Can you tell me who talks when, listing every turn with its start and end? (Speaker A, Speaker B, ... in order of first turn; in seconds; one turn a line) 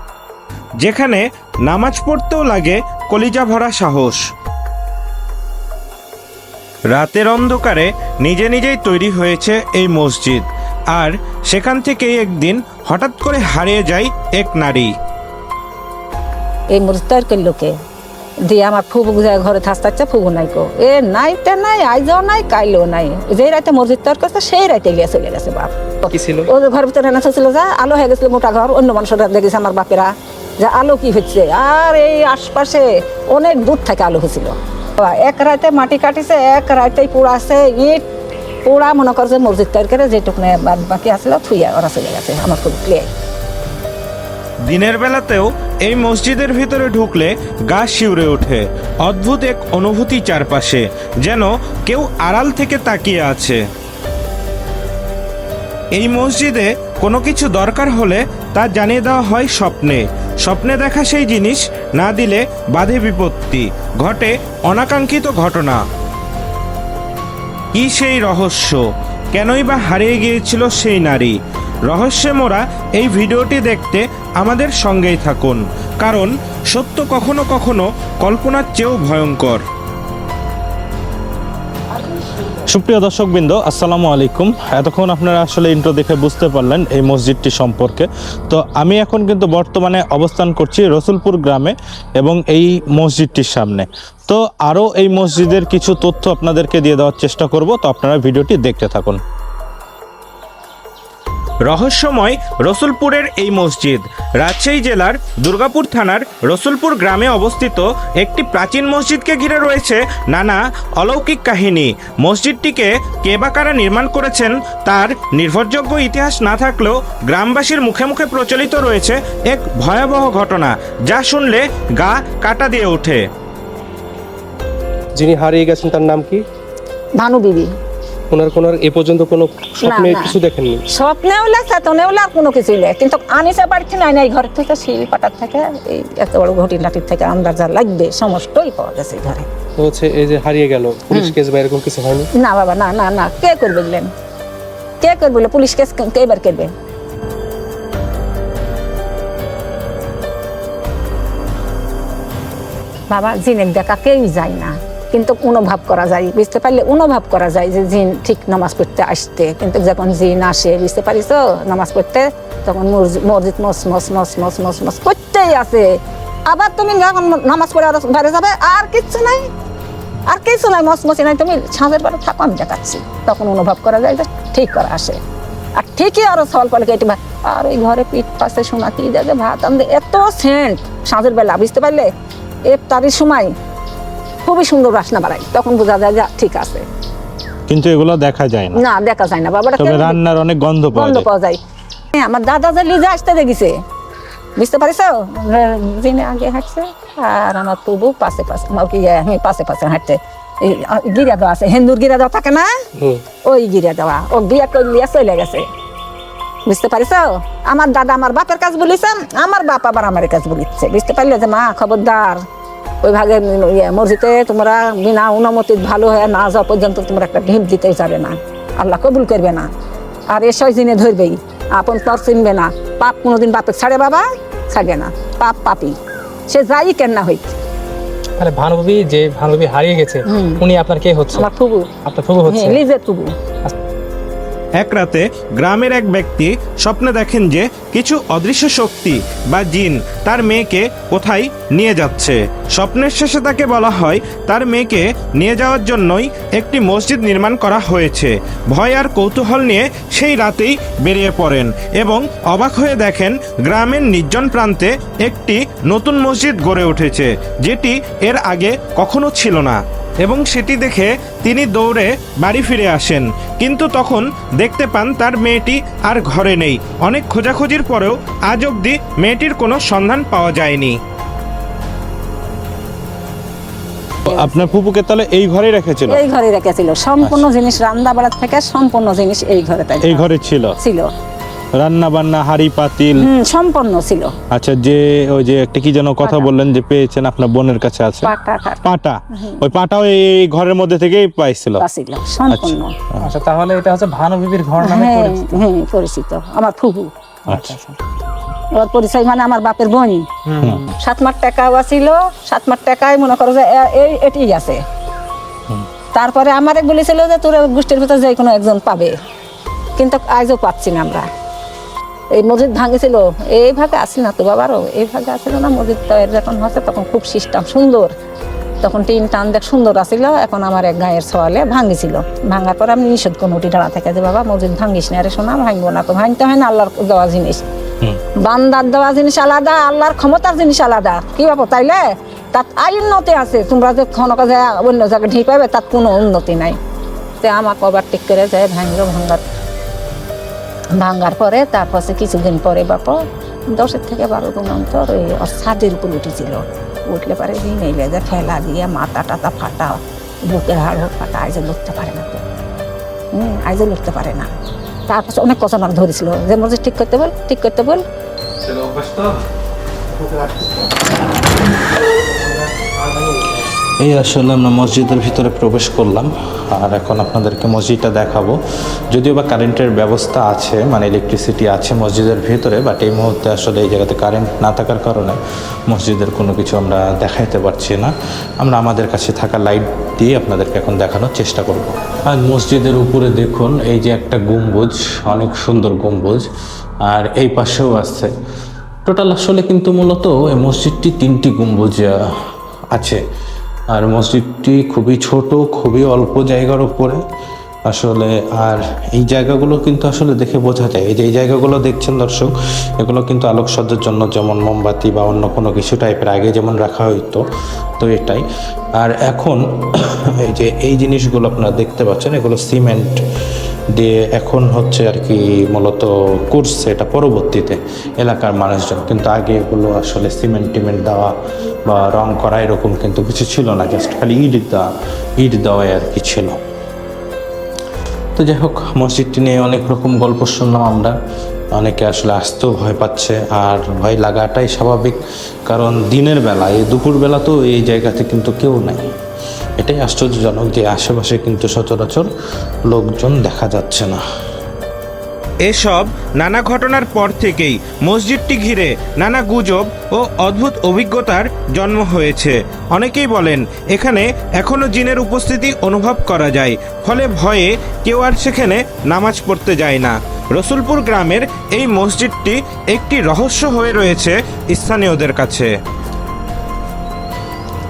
Speaker A: 0.8-4.2
Speaker A: 6.9-14.9
Speaker B: 16.7-17.7
Speaker B: 18.5-38.0
Speaker C: 26.1-26.5
Speaker B: 38.6-43.1
Speaker A: 44.6-53.6
Speaker A: 56.0-65.8
Speaker A: 67.7-71.4
Speaker A: 71.9-79.6
Speaker D: 82.7-93.9
Speaker D: 94.8-97.4
Speaker D: 98.0-99.2
Speaker A: 101.7-123.2
Speaker C: 125.2-126.4
Speaker B: 127.2-127.7
Speaker C: 128.3-130.8
Speaker B: 129.8-130.4
Speaker B: 130.9-139.5
Speaker C: 139.8-142.3
Speaker B: 142.4-144.1
Speaker B: 145.0-146.7
Speaker B: 153.1-169.5
Speaker B: 170.3-175.2
Speaker B: 175.8-182.1
Speaker B: 182.7-183.5
Speaker B: 184.4-186.8
Speaker D: 187.7-188.8
Speaker B: 188.7-190.2
Speaker D: 189.9-191.2
Speaker B: 190.9-191.6
Speaker B: 192.1-193.7
Speaker B: 194.6-202.7
Speaker C: 203.0-203.2
Speaker B: 203.4-205.7
Speaker B: 206.7-212.4
Speaker B: 213.0-219.7
Speaker B: 220.3-226.0
Speaker B: 226.5-227.6
Speaker E: 228.4-231.5
Speaker B: 230.3-230.6
Speaker B: 231.3-231.9
Speaker E: 232.1-232.8
Speaker B: 232.4-233.3
Speaker A: 234.8-271.0
Speaker B: 274.3-274.7
Speaker A: 274.3-276.2
Speaker B: 276.1-281.1
Speaker A: 280.0-280.8
Speaker A: 281.8-283.2
Speaker B: 283.1-284.3
Speaker A: 284.5-288.3
Speaker B: 286.2-286.5
Speaker B: 288.2-289.6
Speaker A: 288.8-291.8
Speaker B: 291.8-292.9
Speaker E: 293.2-295.6
Speaker B: 294.8-297.1
Speaker E: 297.5-297.9
Speaker B: 298.8-300.3
Speaker E: 300.6-300.9
Speaker B: 301.0-304.8
Speaker B: 306.1-309.1
Speaker B: 310.0-311.3
Speaker B: 312.3-318.1
Speaker B: 318.8-327.6
Speaker B: 328.4-332.0
Speaker B: 332.5-336.8
Speaker B: 337.4-339.4
Speaker B: 340.9-343.1
Speaker B: 343.7-352.4
Speaker B: 353.3-354.5
Speaker B: 355.1-358.0
Speaker D: 364.0-368.6
Speaker D: 369.1-375.4
Speaker D: 375.9-386.5
Speaker D: 387.1-388.3
Speaker D: 389.1-392.2
Speaker D: 392.9-393.2
Speaker D: 393.9-397.2
Speaker D: 397.9-407.5
Speaker D: 408.0-408.4
Speaker D: 409.0-413.2
Speaker D: 414.0-421.3
Speaker D: 421.9-424.9
Speaker D: 425.4-426.6
Speaker D: 428.4-431.1
Speaker D: 431.8-439.0
Speaker D: 439.8-442.3
Speaker D: 442.9-444.2
Speaker A: 445.6-465.7